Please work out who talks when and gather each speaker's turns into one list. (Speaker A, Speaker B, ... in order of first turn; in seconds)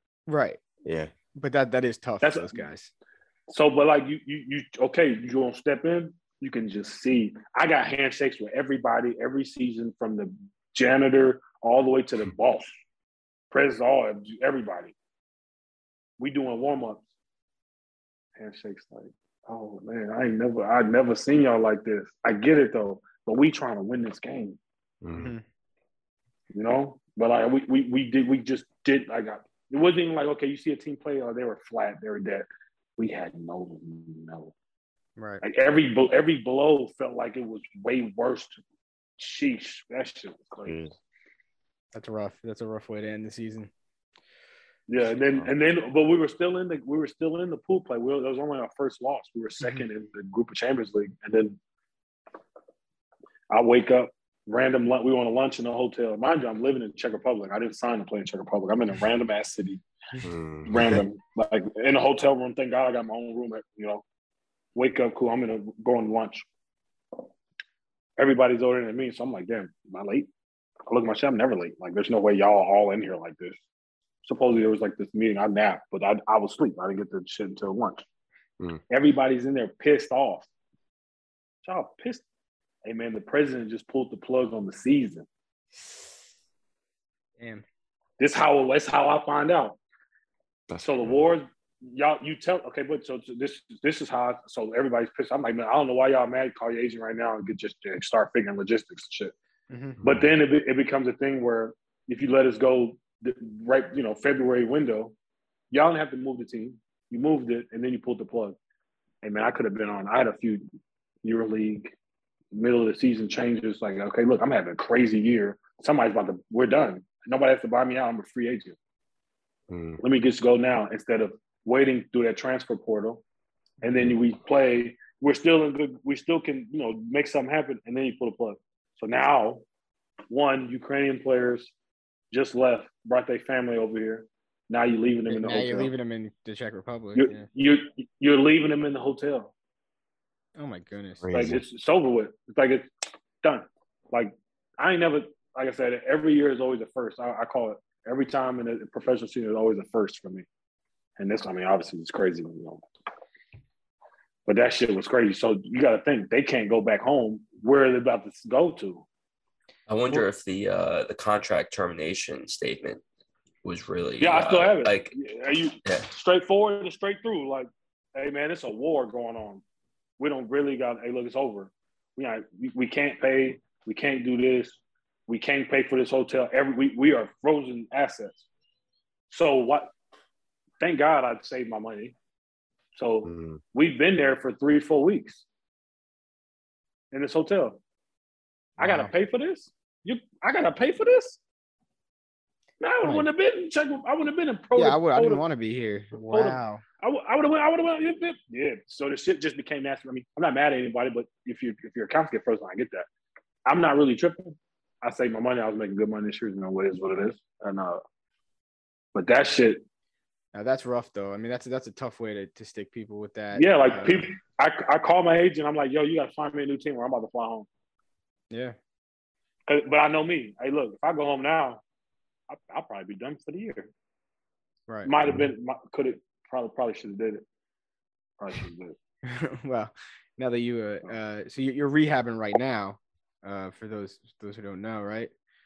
Speaker A: 0.3-0.6, 1.4-2.9, 25.1-25.4, 35.2-35.4, 41.9-43.7, 87.4-87.6, 99.7-100.0, 135.3-137.5, 140.6-141.2, 194.7-196.8, 210.5-214.3, 218.5-218.8, 224.9-225.1, 229.3-235.3
Speaker B: 0.8-1.1, 25.0-25.3, 40.6-40.9, 60.2-61.0, 90.7-91.2, 100.0-100.2, 119.7-120.0, 141.2-141.6, 183.2-183.6, 188.8-189.1
Speaker C: 2.2-2.6, 3.5-12.7, 13.5-14.9, 16.2-17.1, 18.4-24.6, 26.5-34.5, 35.4-38.6, 39.2-40.9, 44.9-51.6, 53.5-59.8, 60.7-64.0, 64.8-66.5, 68.2-70.3, 70.9-73.6, 74.2-78.0, 78.9-80.5, 81.7-82.2, 82.8-85.3, 88.2-89.8, 90.8-99.3, 100.0-105.1, 105.7-108.6, 109.2-110.7, 111.2-112.0, 112.5-118.8, 120.0-123.2, 123.8-129.6, 130.3-131.7, 132.3-135.9, 137.2-139.5, 141.3-142.9, 143.4-150.5, 151.2-152.8, 154.5-159.1, 164.2-169.6, 170.2-178.4, 179.3-179.9, 180.8-182.1, 182.9-185.4, 187.1-187.8, 188.8-191.4, 192.8-195.4, 196.3-203.1, 203.7-208.0, 209.2-209.8, 213.5-217.7, 219.7-221.8, 222.5-223.9, 225.1-227.4, 228.4-229.0
Speaker D: 159.9-163.0, 163.6-165.2